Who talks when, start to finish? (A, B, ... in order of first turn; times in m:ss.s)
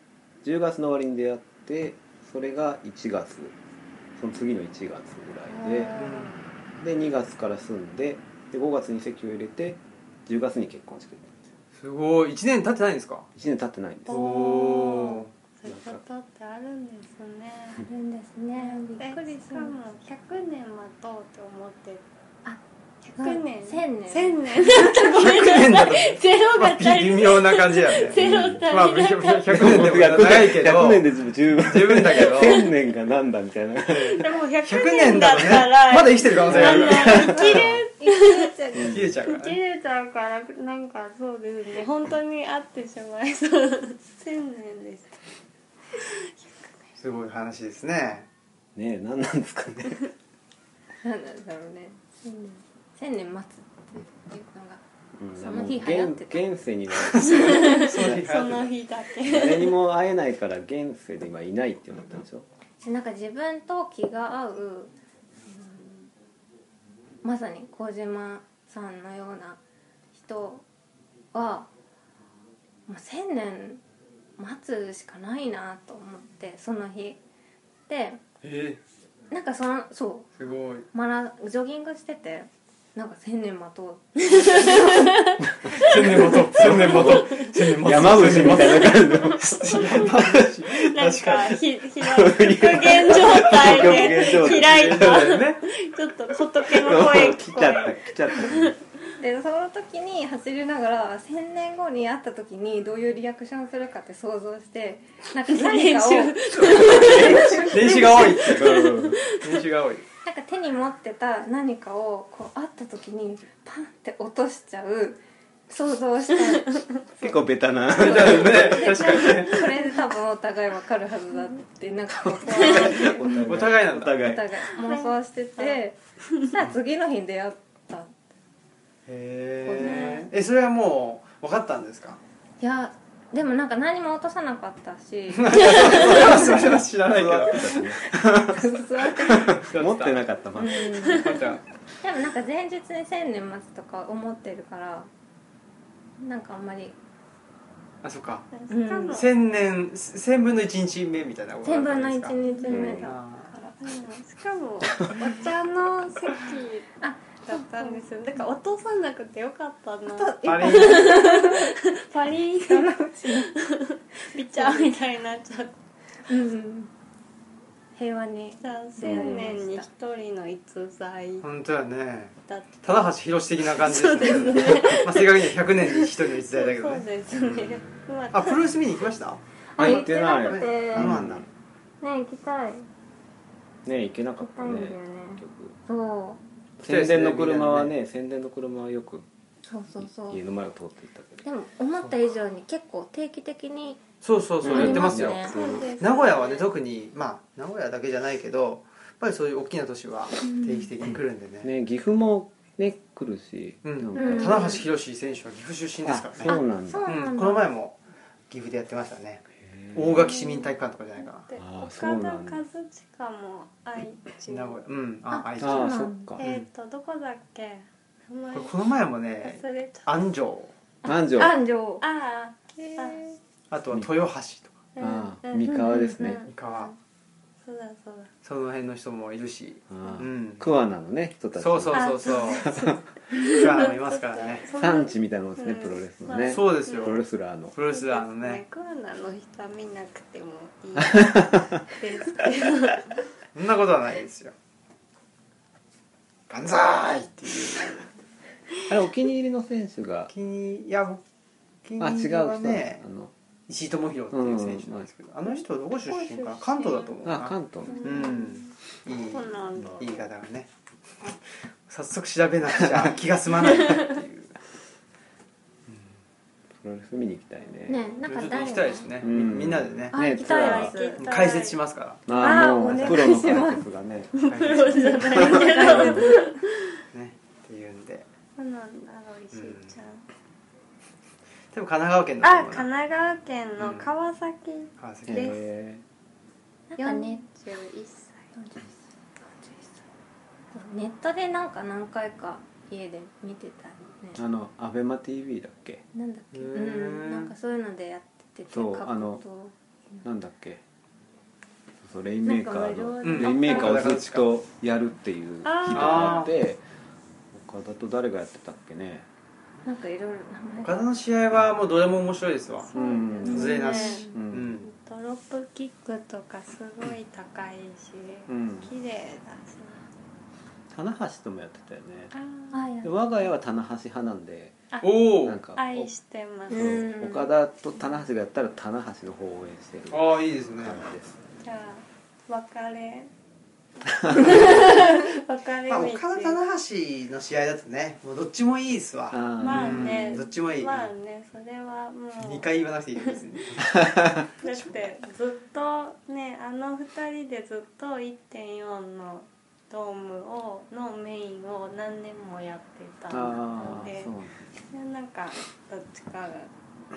0:00.4-0:03.6 A
0:04.2-0:06.0 A
0:05.5-0:06.4 B
0:06.0-0:06.4 C
0:06.8-0:11.3 A
0:11.8-0:13.3 C
0:13.4-0:14.2 A
0:14.1-0:17.9 B
0:14.1-0:15.3 C
0:15.7-0:16.0 A
0:17.9-0:19.8 D
0:18.6-0:22.0 B
0:22.4-0:25.0 D
0:23.2-0:29.7 B
0:25.0-0:32.6 C
0:28.2-0:28.6 A
0:29.5-0:34.3 A
0:32.4-0:32.7 B
0:33.9-0:37.8 C
0:34.0-0:45.2 B
0:36.5-0:37.1 A
0:37.0-0:39.0 D
0:38.8-0:39.1 A
0:38.8-0:39.6 C
0:45.9-0:46.9 B
0:47.0-0:48.3 C
0:48.8-0:50.0 A
0:51.0-0:54.8 D
0:55.2-0:58.6 A
0:55.4-0:56.4 D
0:57.1-0:58.7 C
0:57.3-0:59.8 B
0:59.2-1:02.5 A
1:02.8-1:04.9 D
1:05.5-1:06.1 D
1:07.2-1:09.6 D
1:10.1-1:10.6 D
1:11.3-1:11.7 D
1:12.9-1:13.8 D
1:14.4-1:17.2 D
1:17.9-1:18.2 D
1:18.4-1:18.8 C
1:19.3-1:25.9 D
1:20.4-1:20.9 C
1:24.4-1:25.3 B
1:25.8-1:31.6 C
1:25.9-1:26.4 B
1:26.5-1:30.3 A
1:26.9-1:27.5 B
1:28.4-1:38.8 B
1:32.0-1:35.4 A
1:33.7-1:35.7 C
1:36.6-1:38.8 A
1:39.2-1:48.2 D
1:45.5-1:49.5 B
1:46.6-1:50.0 C
1:46.8-1:47.6 A
1:48.4-1:49.2 A
1:50.2-1:57.4 D
1:56.5-1:56.8 B
1:57.2-1:59.1 A
1:57.9-1:59.6 C
1:57.9-2:08.1 D
1:58.6-2:00.1 B
2:02.2-2:04.5 A
2:02.6-2:03.0 B
2:03.3-2:04.2 C
2:04.7-2:05.8 B
2:09.1-2:12.2 C
2:09.7-2:10.3 D
2:09.8-2:10.2 B
2:12.6-2:16.8 D
2:15.3-2:18.0 C
2:15.7-2:21.2 A
2:18.5-2:19.6 D
2:19.2-2:20.2 C
2:20.6-2:21.4 D
2:21.1-2:21.6 C
2:22.0-2:25.1 D
2:26.2-2:27.0 D
2:28.0-2:28.5 C
2:28.5-2:29.3 B
2:28.7-2:29.2 D
2:29.1-2:32.4 C
2:31.6-2:33.8 D
2:32.4-2:33.0 B
2:32.7-2:33.1 A
2:33.0-2:33.5 C
2:33.8-2:36.9 B
2:37.0-2:38.0 D
2:37.4-2:45.8 B
2:40.1-2:41.8 D
2:40.4-2:41.2 C
2:42.6-2:43.5 D
2:44.5-2:44.9 D
2:46.3-2:46.9 D
2:48.0-2:49.9 D
2:48.6-2:51.5 B
2:51.4-2:57.1 C
2:52.5-2:53.1 B
2:53.7-2:55.9 B
2:56.4-2:58.7 B
2:58.3-3:01.5 C
2:59.7-3:01.2 D
2:59.8-3:01.5 A
3:02.0-3:02.9 D
3:03.8-3:05.8 A
3:04.4-3:06.4 D
3:06.8-3:09.3 A
3:06.8-3:07.9 C
3:09.7-3:10.4 D
3:10.0-3:11.4 A
3:11.4-3:14.0 D
3:14.2-3:21.7 C
3:14.6-3:15.9 A
3:14.6-3:15.8 D
3:15.5-3:16.7 B
3:20.4-3:20.9 D
3:21.6-3:24.8 A
3:23.8-3:28.0 C
3:24.2-3:24.9 D
3:26.0-3:27.1 A
3:26.5-3:27.7 D
3:28.5-3:31.5 C
3:29.6-3:30.2 A
3:30.2-3:30.7 B
3:31.5-3:34.8 B
3:31.6-3:32.6 A
3:34.5-3:36.7 C
3:35.3-3:36.4 D
3:35.6-3:36.4 A
3:36.4-3:38.7 B
3:38.5-3:40.7 C
3:39.4-3:40.1 B
3:41.0-3:41.6 A
3:41.0-3:42.0 D
3:42.0-3:43.4 B
3:43.7-3:44.8 C
3:45.0-3:47.0 B
3:45.0-3:46.5 A
3:45.6-3:46.4 D
3:46.5-3:46.9 C
3:47.6-3:48.3 B
3:48.4-3:50.7 C
3:49.9-3:53.0 A
3:51.6-3:52.7 C
3:51.9-3:57.2 B
3:53.4-3:54.7 C
3:54.7-3:57.8 A
3:56.5-3:58.6 C
3:57.9-4:03.1 B
4:01.0-4:01.8 A
4:03.5-4:04.5 C
4:06.5-4:08.1 C
4:08.8-4:10.3 A
4:10.3-4:11.2 C
4:11.8-4:13.0 C
4:12.0-4:13.3 A
4:13.7-4:20.7 C
4:14.3-4:15.1 A
4:16.7-4:17.1 B
4:17.2-4:18.0 A
4:17.9-4:20.2 B
4:17.9-4:18.5 D
4:21.9-4:24.5 C
4:22.8-4:23.1 A
4:23.7-4:24.1 B
4:26.8-4:28.1 A
4:27.9-4:29.2 D
4:28.3-4:30.2 C
4:29.2-4:31.0 A
4:30.1-4:31.2 D
4:30.3-4:31.8 B
4:31.2-4:33.2 C
4:32.3-4:34.8 A
4:32.3-4:33.8 D
4:34.4-4:36.8 B
4:34.5-4:35.2 C
4:35.0-4:36.5 D
4:35.4-4:36.2 A
4:37.1-4:38.3 C
4:38.6-4:40.2 B
4:39.5-4:40.0 C
4:41.7-4:42.9 C
4:42.4-4:45.6 B
4:43.8-4:44.1 C
4:45.0-4:45.6 C
4:45.3-4:46.0 A
4:46.9-4:47.4 D
4:47.0-4:48.5 B
4:48.6-4:50.0 D
4:50.7-4:54.4 D
4:54.4-4:56.0 A
4:56.1-5:00.2 D
4:56.5-4:57.5 C
4:58.7-4:59.4 A
5:00.2-5:00.8 A
5:02.0-5:06.8 A
5:02.4-5:04.0 D
5:03.2-5:04.5 C
5:05.6-5:06.5 B
5:05.9-5:06.5 C
5:07.5-5:09.3 A
5:09.8-5:11.1 D
5:10.8-5:12.9 C
5:12.9-5:20.1 B
5:12.9-5:13.8 A
5:13.0-5:14.4 D
5:13.4-5:14.9 C
5:14.3-5:14.7 A
5:18.5-5:18.9 A
5:20.9-5:22.3 A
5:22.3-5:22.8 B
5:22.7-5:23.2 D
5:23.0-5:24.8 A
5:24.9-5:25.2 B
5:25.0-5:25.6 C
5:25.4-5:26.1 A
5:25.8-5:27.1 B
5:26.7-5:27.5 D
5:26.7-5:31.4 A
5:30.1-5:31.0 C
5:31.6-5:33.3 B
5:34.2-5:34.8 A
5:34.2-5:36.6 B
5:35.9-5:41.1 C
5:39.3-5:40.4 A
5:39.6-5:42.7 B
5:42.4-5:44.1 C
5:44.0-5:44.4 A
5:44.6-5:54.3 B
5:53.3-5:54.6 A
5:54.9-5:56.7 B